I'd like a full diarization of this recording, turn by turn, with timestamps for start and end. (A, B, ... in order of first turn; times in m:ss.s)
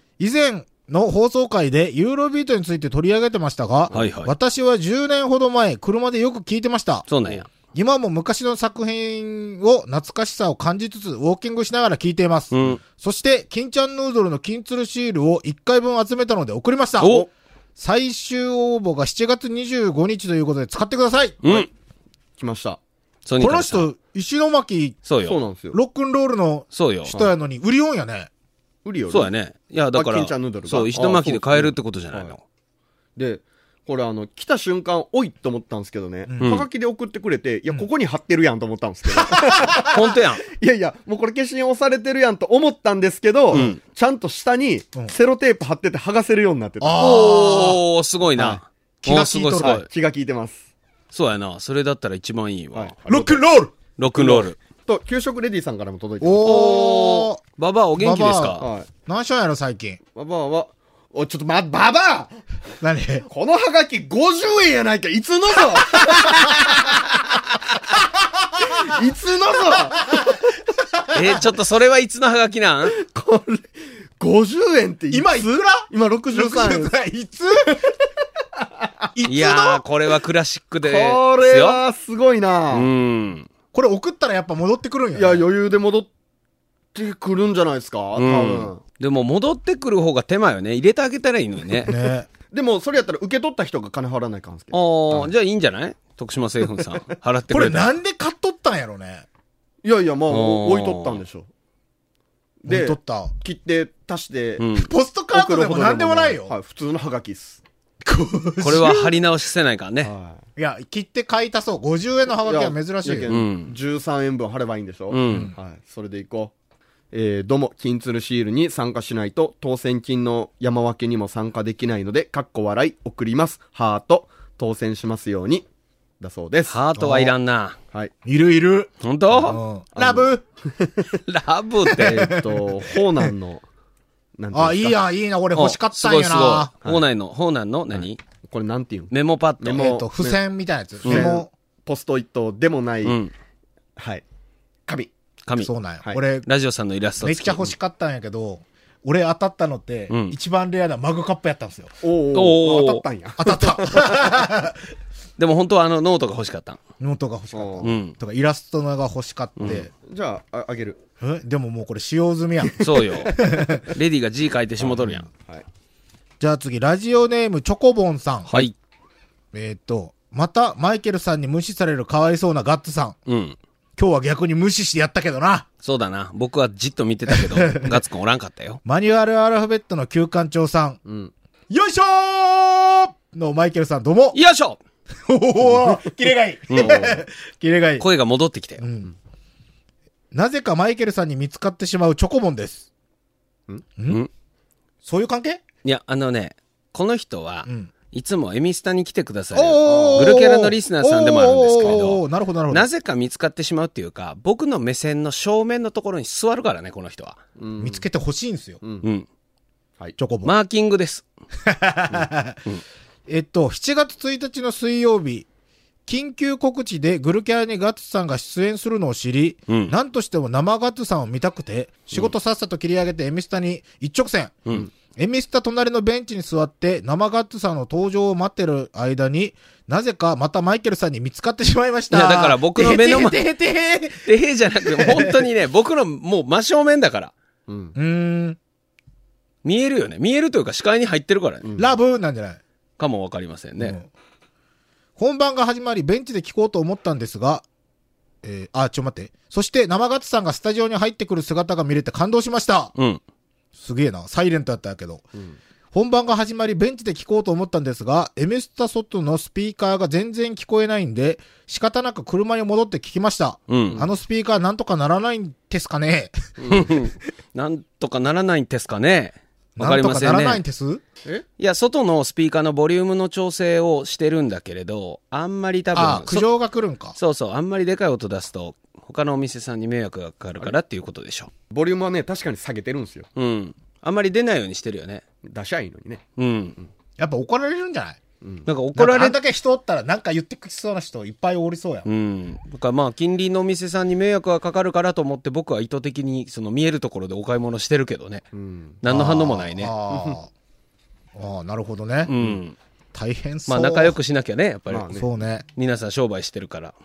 0:00.2-0:07.1 A
0:03.9-0:04.3 B
0:07.1-0:07.5 B
0:07.6-0:17.2 A
0:12.5-0:12.8 B
0:17.0-0:17.3 B
0:17.0-0:17.3 C
0:17.8-0:21.7 A
0:21.4-0:21.7 B
0:22.4-0:22.8 C
0:23.3-0:23.9 B
0:23.4-0:25.0 A
0:25.0-0:25.4 B
0:25.2-0:25.8 C
0:25.7-0:28.3 A
0:26.7-0:27.2 B
0:28.8-0:29.3 C
0:29.1-0:32.4 B
0:29.9-0:32.3 C
0:33.2-0:47.8 C
0:36.3-0:36.6 A
0:36.4-0:36.7 B
0:39.2-0:39.9 A
0:39.9-0:40.4 B
0:46.8-0:47.8 A
0:47.0-0:49.9 B
0:48.4-0:48.6 C
0:49.0-0:49.8 A
0:49.6-0:50.7 C
0:51.1-0:53.0 B
0:52.7-0:53.4 C
0:53.1-0:53.7 A
0:54.0-0:54.6 B
0:54.2-0:56.8 C
0:56.2-0:57.4 A
0:56.4-0:58.7 B
0:58.0-1:00.0 A
0:58.6-0:58.9 C
1:00.2-1:02.3 C
1:02.8-1:03.3 A
1:03.3-1:07.2 C
1:06.1-1:06.5 A
1:08.6-1:10.6 C
1:11.1-1:13.0 B
1:13.0-1:13.6 C
1:14.2-1:16.9 C
1:15.1-1:17.9 A
1:19.1-1:19.8 A
1:19.2-1:21.8 B
1:20.8-1:22.9 C
1:22.7-1:23.5 B
1:23.7-1:25.4 A
1:25.2-1:26.1 C
1:27.0-1:28.8 C
1:28.2-1:31.9 B
1:31.9-1:32.3 A
1:32.5-1:35.3 C
1:34.7-1:37.9 B
1:37.5-1:39.3 A
1:39.8-1:41.5 C
1:40.3-1:41.2 B
1:42.6-1:44.7 C
1:42.7-1:43.3 A
1:44.6-1:44.9 B
1:44.8-1:46.5 A
1:45.3-1:47.6 C
1:48.0-1:49.2 A
1:48.6-1:50.1 B
1:50.0-1:50.4 C
1:50.6-1:53.3 A
1:52.4-1:56.5 C
1:53.3-1:53.8 B
1:55.1-1:55.5 B
1:57.1-2:05.7 C
2:06.2-2:06.8 C
2:06.7-2:07.8 B
2:07.0-2:07.3 A
2:08.2-2:10.4 A
2:09.0-2:09.6 B
2:10.0-2:11.1 C
2:11.3-2:12.4 B
2:12.0-2:12.7 A
2:12.0-2:13.6 C
2:14.4-2:15.0 C
2:14.5-2:16.7 A
2:15.6-2:18.2 B
2:18.5-2:20.4 C
2:19.1-2:19.8 B
2:19.8-2:21.5 A
2:21.1-2:23.2 C
2:23.0-2:23.3 B
2:24.0-2:24.2 C
2:25.6-2:26.5 A
2:26.5-2:27.7 B
2:27.2-2:31.9 A
2:30.1-2:30.4 B
2:32.0-2:34.3 C
2:32.3-2:33.0 B
2:33.4-2:34.8 A
2:35.4-2:36.8 B
2:37.0-2:39.9 A
2:37.5-2:37.9 C
2:37.8-2:38.2 B
2:39.6-2:39.8 B
2:40.0-2:41.0 C
2:41.2-2:43.9 A
2:42.8-2:45.3 B
2:44.8-2:45.6 C
2:46.4-2:48.7 A
2:48.5-2:48.8 B
2:49.5-2:53.2 A
2:53.3-2:53.6 B
2:54.0-2:55.7 A
2:55.8-2:58.8 B
2:57.3-2:58.0 A
2:58.8-3:01.0 A
3:01.0-3:01.3 C
3:01.7-3:04.4 A
3:04.3-3:04.8 B
3:05.3-3:08.0 A
3:05.7-3:06.1 C
3:06.7-3:07.2 C
3:08.0-3:08.8 B
3:08.8-3:09.1 A
3:10.3-3:12.9 A
3:14.0-3:14.2 A
3:15.0-3:15.6 A
3:15.8-3:27.4 B
3:19.5-3:22.9 A
3:19.8-3:20.4 C
3:27.6-3:28.0 C
3:27.8-3:28.8 A
3:29.0-3:29.3 B
3:30.2-3:30.5 A
3:30.4-3:31.2 B
3:31.6-3:32.6 A
3:33.3-3:35.5 A
3:36.1-3:55.4 A
3:39.7-3:39.9 B
3:52.1-3:53.4 B
3:54.2-3:57.3 B
3:57.7-3:57.9 C
3:58.0-3:58.6 A
3:59.6-4:01.7 B
4:01.6-4:02.0 C
4:01.8-4:02.6 A
4:03.0-4:04.0 B
4:03.8-4:04.1 A
4:05.2-4:07.6 A
4:08.4-4:12.9 A
4:13.0-4:13.2 B
4:13.8-4:15.2 A
4:15.9-4:26.8 A
4:23.7-4:24.0 B
4:26.6-4:26.9 C
4:26.7-4:30.6 B
4:29.8-4:31.0 A
4:31.6-4:36.5 B
4:35.9-4:37.2 A
4:37.2-4:41.5 B
4:41.7-4:43.3 C
4:43.4-4:45.2 B
4:45.4-4:46.2 C
4:46.4-4:46.9 B
4:47.2-4:48.2 A
4:48.4-4:48.7 C
4:48.7-4:49.4 B
4:49.0-4:52.1 A
4:52.0-4:58.4 B
4:58.5-4:59.0 C
4:59.0-4:59.9 B
4:59.0-5:00.5 A
5:00.1-5:00.4 C
5:01.4-5:02.3 A
5:02.3-5:02.8 B
5:03.1-5:04.2 A
5:03.7-5:05.1 B
5:04.9-5:05.3 C
5:05.1-5:05.6 A
5:05.8-5:06.9 B